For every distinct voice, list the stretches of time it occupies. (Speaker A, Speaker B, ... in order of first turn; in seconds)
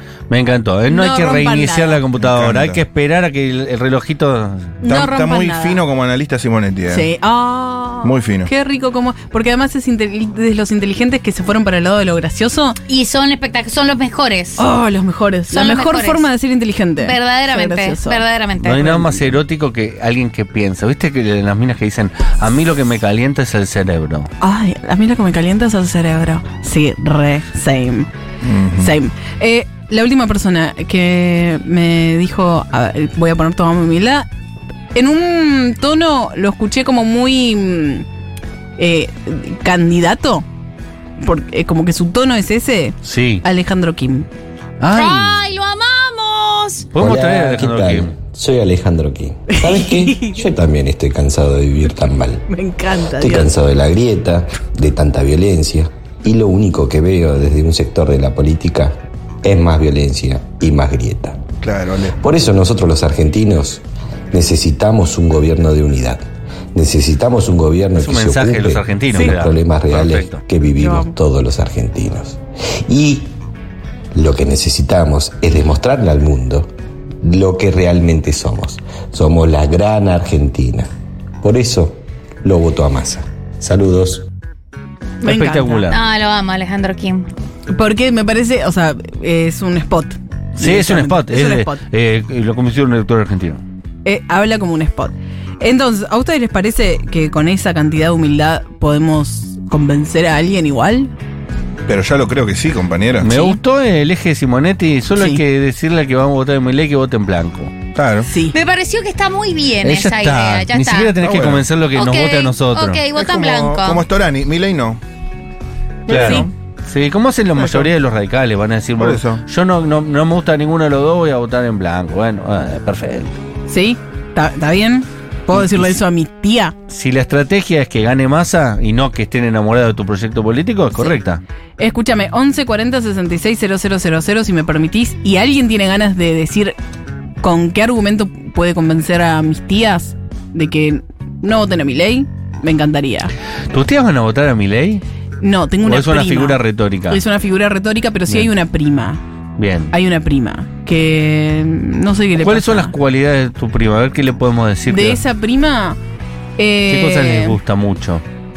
Speaker A: 0.3-4.8, 18.6-24.3, 43.0-43.4, 44.8-45.4, 46.9-48.1, 68.0-70.4, 85.2-86.0, 90.6-93.6, 103.2-107.7, 109.8-113.0, 116.1-123.4, 125.5-125.8, 126.9-131.4, 143.7-145.0, 145.8-147.2, 149.6-149.9, 152.4-155.2, 156.9-158.2
Speaker B: 0.9-2.0, 4.8-5.8, 6.9-12.8, 14.6-18.2, 18.8-19.4, 24.4-28.1, 28.8-34.3, 34.9-38.0, 38.8-40.5, 41.2-44.3, 49.5-50.4, 52.5-53.5, 69.1-69.4, 70.8-71.1, 85.2-85.9, 87.7-91.8, 94.0-101.1, 105.1-105.4, 108.3-108.6, 116.1-116.5, 117.6-117.9, 123.7-126.8, 131.8-136.8, 137.4-143.3, 145.4-149.2, 149.9-152.9, 154.9-156.0, 156.6-157.6
Speaker C: 2.2-2.8, 4.9-7.1, 8.0-8.5, 28.4-28.9, 61.6-62.1, 101.9-103.3, 108.0-108.3, 111.2-111.6, 113.2-115.0, 119.0-119.4
Speaker D: 12.9-14.6, 15.5-16.3, 17.0-18.9, 44.9-46.9, 85.9-87.3, 108.5-111.1, 112.0-114.0
Speaker E: 47.0-52.5, 53.2-61.5, 62.2-66.2, 66.7-73.3, 74.1-76.7, 77.2-80.9, 81.4-84.2